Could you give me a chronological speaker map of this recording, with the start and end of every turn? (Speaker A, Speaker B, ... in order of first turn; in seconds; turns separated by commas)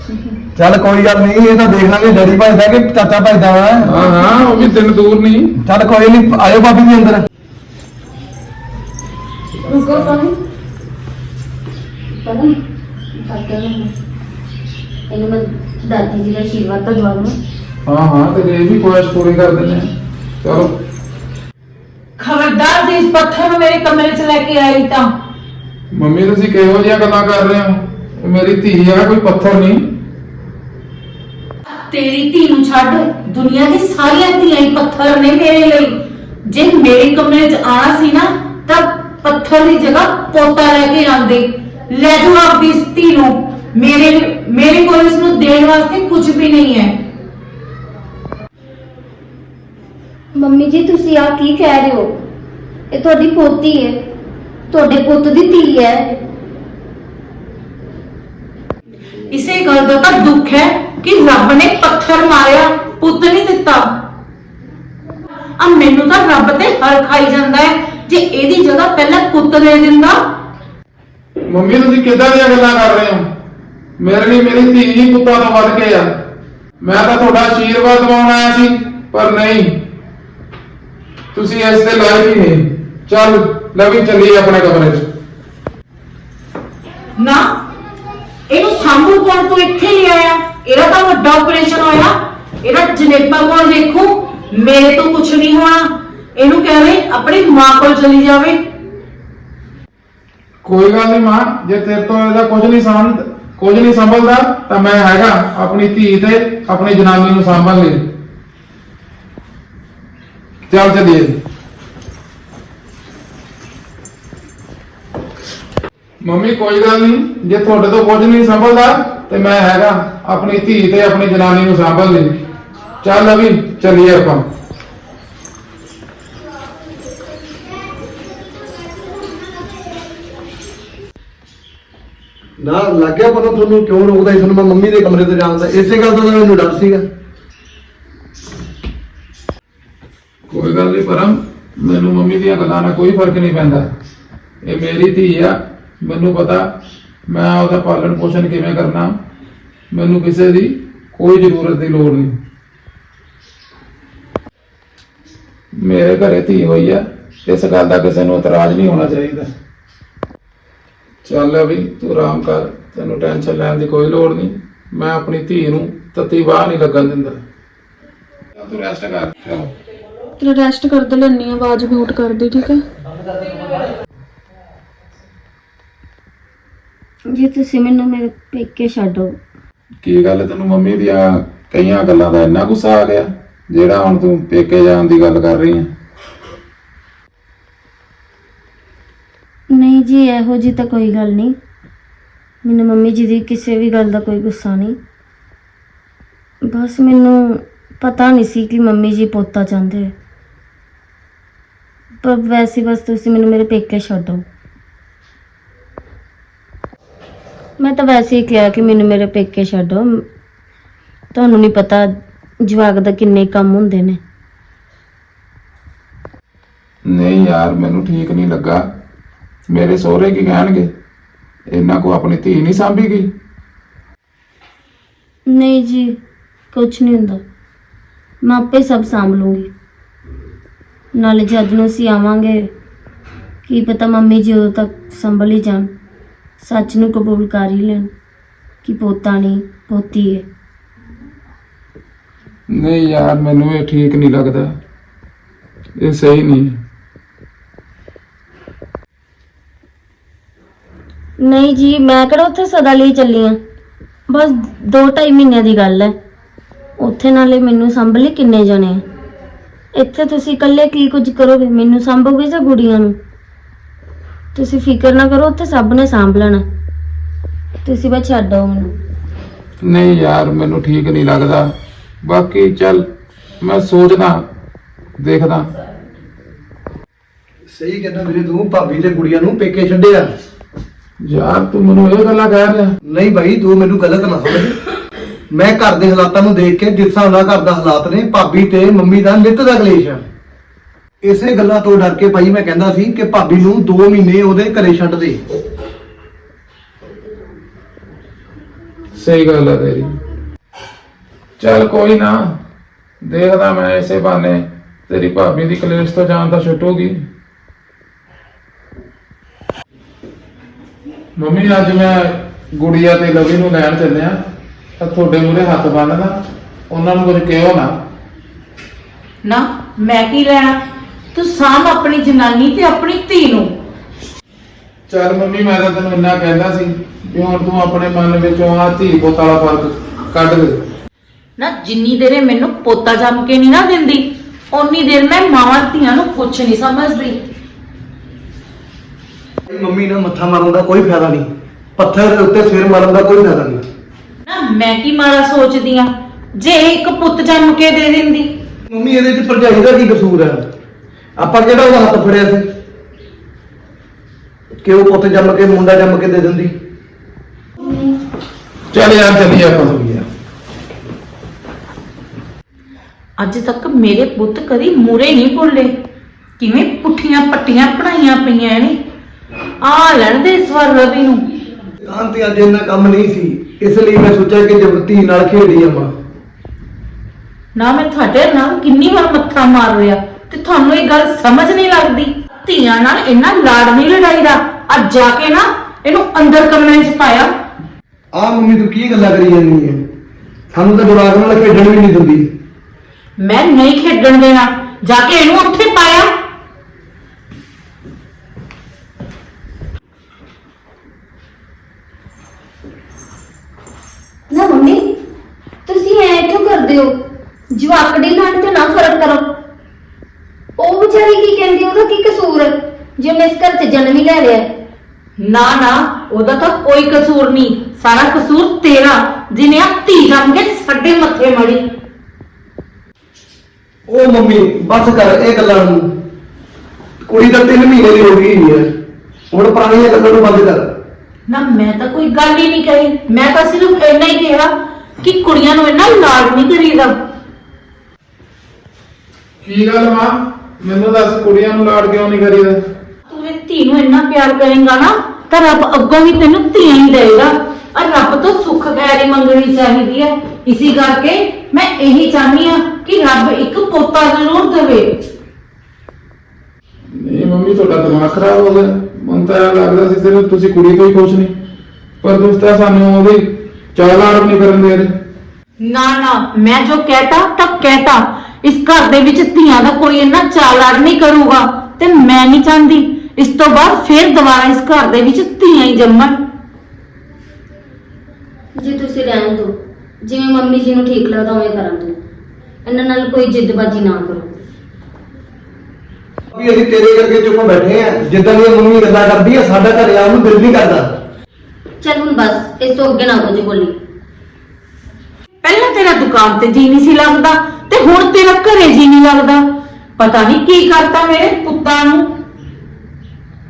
Speaker A: 0.6-4.0, Speaker B: 3.8-5.6, Speaker A: 5.6-7.3, Speaker C: 9.7-10.4, Speaker C: 12.1-12.6, Speaker C: 13.1-13.9, Speaker C: 15.1-17.4, Speaker B: 17.9-20.8, Speaker D: 22.2-25.1, Speaker B: 25.9-29.9, Speaker D: 31.9-46.9, Speaker C: 50.4-52.2, Speaker C: 52.9-54.1, Speaker C: 54.7-56.2, Speaker D: 59.3-63.9, Speaker D: 65.6-70.2, Speaker B: 71.5-73.3, Speaker B: 74.0-76.2, Speaker B: 76.8-79.8, Speaker B: 81.3-85.1, Speaker D: 87.2-87.5, Speaker D: 88.5-98.6, Speaker B: 100.6-108.1, Speaker B: 110.7-111.4, Speaker B: 116.2-122.4, Speaker B: 123.0-124.5, Speaker A: 132.6-137.0, Speaker B: 140.5-143.9, Speaker B: 144.6-146.7, Speaker B: 147.3-149.2, Speaker B: 149.9-152.4, Speaker B: 155.7-159.5, Speaker B: 161.2-167.4, Speaker B: 168.6-169.7, Speaker E: 170.4-172.8, Speaker C: 170.4-172.5, Speaker A: 173.0-173.9, Speaker C: 177.3-179.4, Speaker B: 180.0-185.9, Speaker C: 189.7-191.6, Speaker C: 192.6-195.0, Speaker C: 196.7-200.1, Speaker C: 202.2-204.4, Speaker C: 207.8-210.2, Speaker C: 211.3-212.1, Speaker C: 212.6-214.2, Speaker B: 217.1-218.8, Speaker B: 219.7-220.9, Speaker B: 221.7-223.3, Speaker C: 225.5-226.2, Speaker C: 226.7-227.4, Speaker C: 228.4-229.7, Speaker C: 231.2-232.7, Speaker C: 233.7-235.9, Speaker C: 236.6-238.1, Speaker C: 238.8-240.5, Speaker B: 242.7-244.8, Speaker B: 246.0-246.8, Speaker C: 251.4-253.6, Speaker C: 254.3-256.2, Speaker C: 257.0-259.0, Speaker C: 259.9-263.2, Speaker C: 264.5-266.6, Speaker C: 267.8-268.9, Speaker B: 269.8-271.7, Speaker B: 272.2-273.1, Speaker B: 273.6-274.4, Speaker B: 275.2-275.7, Speaker A: 277.7-280.3, Speaker B: 281.2-282.9, Speaker A: 283.1-284.8, Speaker A: 285.5-290.2, Speaker A: 291.2-295.4, Speaker B: 299.2-300.2, Speaker B: 301.6-302.6, Speaker B: 303.2-307.2, Speaker B: 311.4-314.4, Speaker B: 315.0-316.4, Speaker B: 316.9-318.0, Speaker D: 319.4-320.8, Speaker D: 321.3-323.7, Speaker B: 325.1-330.8, Speaker D: 331.6-337.4, Speaker A: 339.7-343.8, Speaker D: 344.5-348.5, Speaker A: 348.9-350.6, Speaker A: 351.4-352.7, Speaker A: 354.8-356.7, Speaker B: 358.9-360.1, Speaker A: 359.9-360.2, Speaker D: 363.4-365.9, Speaker D: 366.6-369.0, Speaker D: 369.8-371.4, Speaker A: 372.0-376.1, Speaker D: 377.8-387.5, Speaker A: 388.3-390.0, Speaker A: 390.7-392.5, Speaker D: 393.4-396.3, Speaker C: 404.5-405.1, Speaker C: 405.9-407.2, Speaker C: 407.7-409.6, Speaker C: 410.8-414.7, Speaker D: 415.4-421.9, Speaker A: 424.1-426.2, Speaker A: 427.3-428.9, Speaker A: 429.5-430.9, Speaker D: 431.5-437.1, Speaker B: 439.6-442.8, Speaker D: 443.3-455.2, Speaker B: 457.1-461.6, Speaker B: 462.2-465.1, Speaker D: 465.8-476.4, Speaker C: 478.8-482.2, Speaker C: 482.9-484.6, Speaker A: 486.5-491.1, Speaker C: 492.0-494.0, Speaker D: 495.6-499.6, Speaker D: 500.2-502.3